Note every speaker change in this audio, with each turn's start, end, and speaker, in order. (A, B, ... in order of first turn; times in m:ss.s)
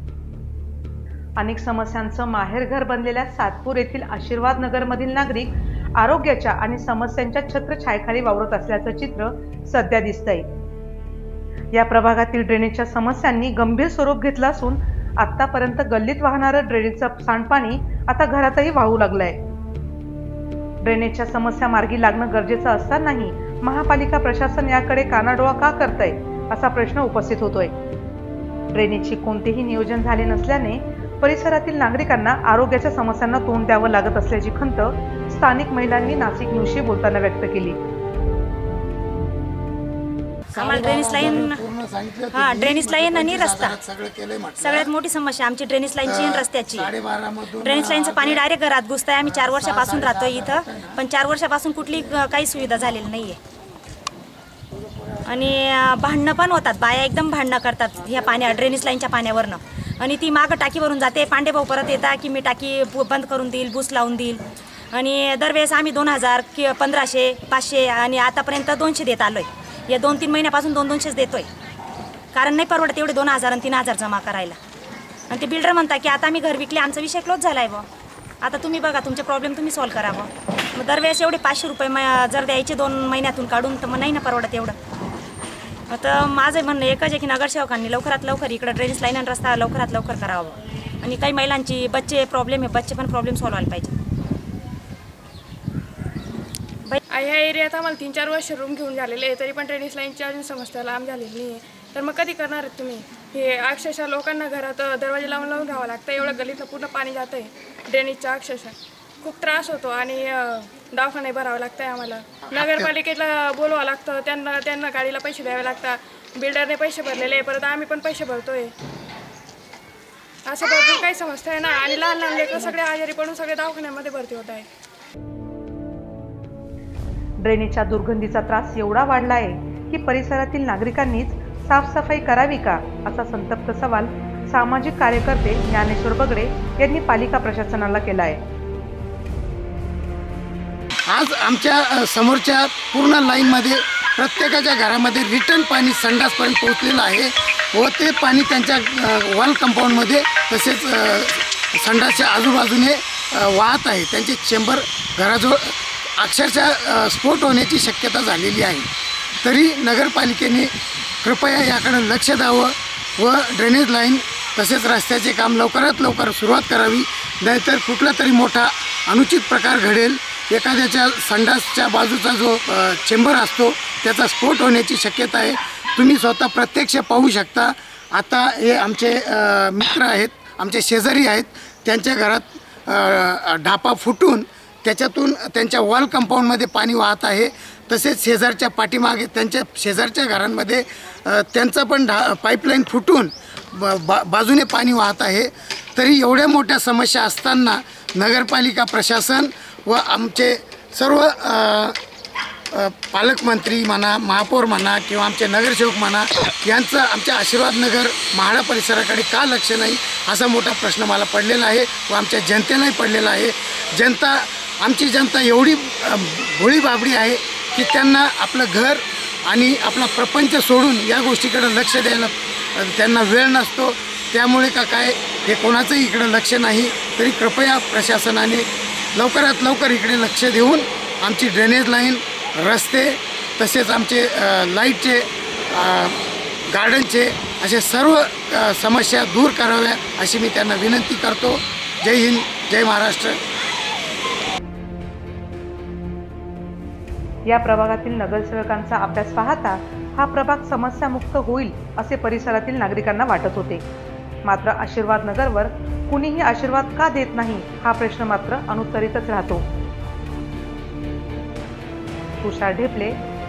0:01.4-0:10.4 A
0:11.7-0:19.4 A
0:20.8-0:27.7 A
0:28.7-0:37.8 A
0:40.5-0:41.6 B
0:40.5-0:44.9 C
0:42.3-0:43.8 B
0:44.6-0:46.9 B
0:46.0-0:48.4 C
0:47.6-0:53.4 B
0:49.2-0:51.0 C
0:55.2-1:04.4 B
1:04.9-1:11.5 B
1:12.3-1:14.6 B
1:15.3-1:17.9 B
1:18.4-1:24.8 B
1:25.9-1:33.9 B
1:37.1-1:58.7 D
1:52.5-1:52.9 C
2:00.4-2:04.7 D
2:07.4-2:18.4 A
2:21.1-2:38.9 C
2:39.4-3:22.0 C
3:22.7-4:03.4 C
4:07.4-4:13.8 A
4:14.4-4:19.6 A
4:22.4-4:23.2 A